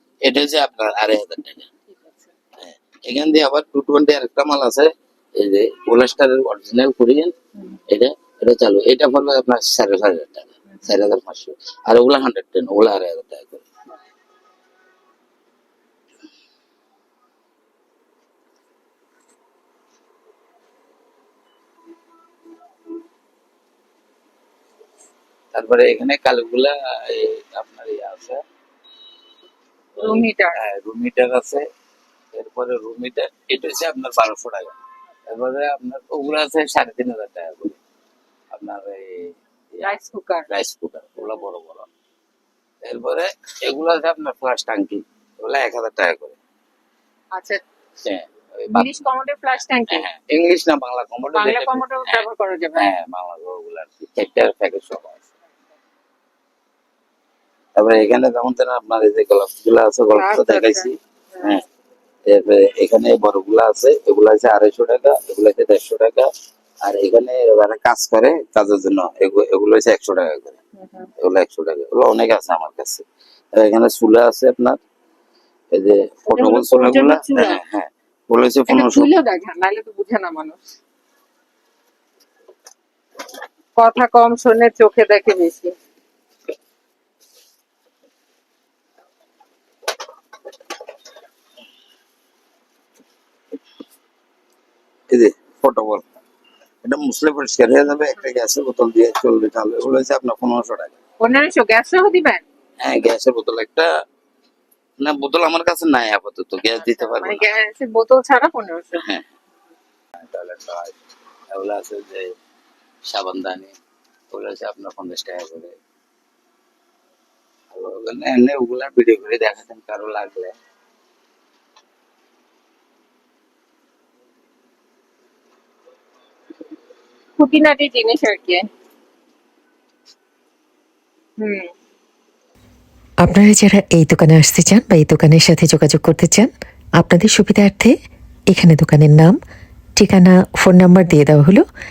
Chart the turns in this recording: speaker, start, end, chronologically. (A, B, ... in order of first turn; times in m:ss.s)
0:00.2-0:01.7 A
0:01.9-0:02.3 B
0:02.7-0:07.3 A
0:07.6-0:07.8 B
0:07.9-0:13.6 A
0:25.5-0:28.4 A
0:30.0-0:30.6 B
0:30.0-0:31.7 A
0:32.3-0:34.8 A
0:35.3-0:37.8 A
0:38.5-0:39.9 A
0:39.8-0:40.5 B
0:40.5-0:41.9 A
0:42.8-0:46.4 A
0:47.4-0:47.6 B
0:48.0-0:49.0 A
0:48.7-0:50.1 B
0:49.9-0:52.2 A
0:51.3-0:52.9 B
0:52.8-0:55.2 A
0:57.8-1:01.6 A
1:00.1-1:01.6 B
1:02.3-1:06.3 A
1:06.8-1:10.6 A
1:10.8-1:11.1 B
1:11.2-1:14.8 A
1:15.7-1:19.1 A
1:16.3-1:17.6 B
1:18.7-1:20.6 B
1:23.8-1:25.8 B
1:35.1-1:36.0 A
1:36.8-1:41.0 A
1:41.2-1:42.4 B
1:42.8-1:43.9 A
1:45.0-1:47.4 A
1:46.8-1:49.0 B
1:50.2-1:51.0 A
1:51.5-1:52.3 A
1:53.1-1:53.8 A
1:54.3-1:55.8 A
1:57.7-2:00.5 A
2:07.4-2:08.7 B
2:11.4-2:11.7 B
2:13.2-2:18.0 C
2:18.5-2:19.4 C
2:20.0-2:21.6 C